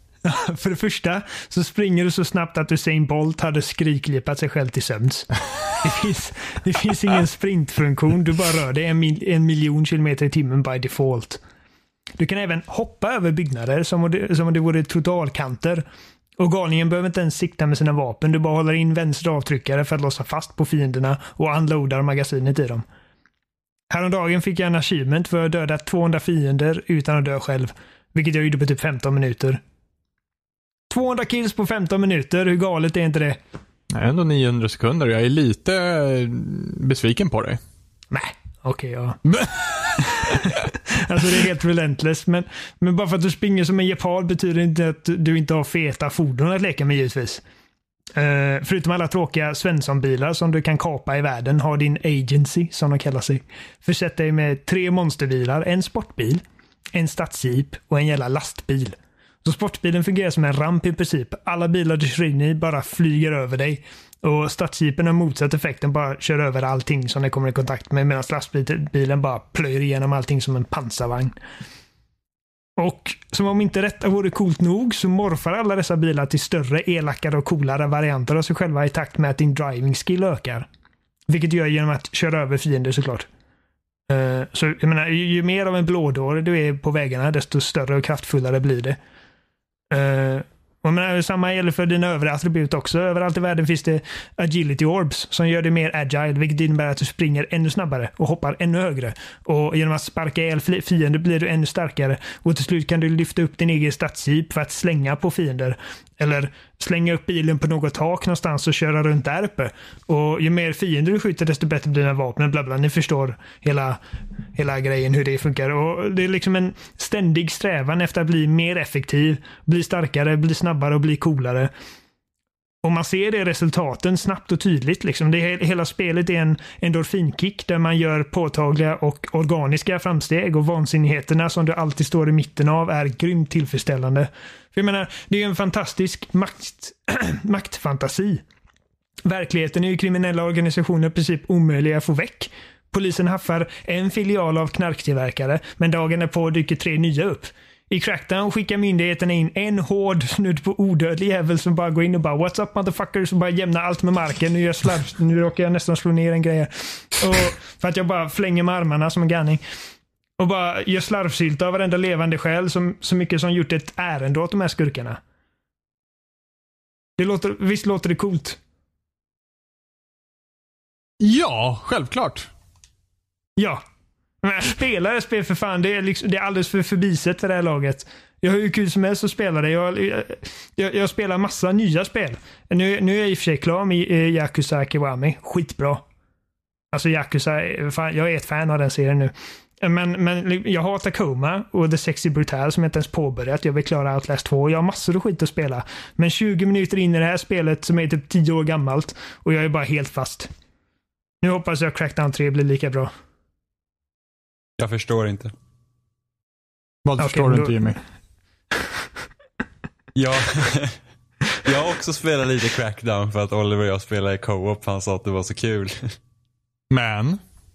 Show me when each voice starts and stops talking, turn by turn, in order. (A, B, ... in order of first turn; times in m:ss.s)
0:00.2-0:11.4 A
0:12.2-0:15.8 A
0:16.4-0:22.8 A
0:23.9-0:29.6 A
0:30.9-0:33.4 A
0:33.9-0:37.6 B
0:38.1-0:39.2 A
0:39.3-0:40.4 B
0:40.0-0:47.4 A
0:48.2-0:56.4 A
0:56.9-1:11.4 A
1:12.8-1:20.7 A
1:21.3-1:23.3 A
1:24.1-1:29.0 A
1:29.9-1:54.0 A
1:54.6-2:01.7 A
2:02.8-2:18.4 A
2:19.3-2:39.6 A
2:40.4-2:45.2 A
2:47.2-2:48.6 A
2:51.2-2:52.5 B
2:54.4-3:06.0 A
3:06.9-3:20.5 A
3:21.4-3:23.1 A
3:24.8-3:25.5 C
3:27.0-3:28.0 B
3:27.2-3:27.9 A
3:30.2-3:31.0 C
3:31.6-3:36.2 C
3:36.9-3:37.4 B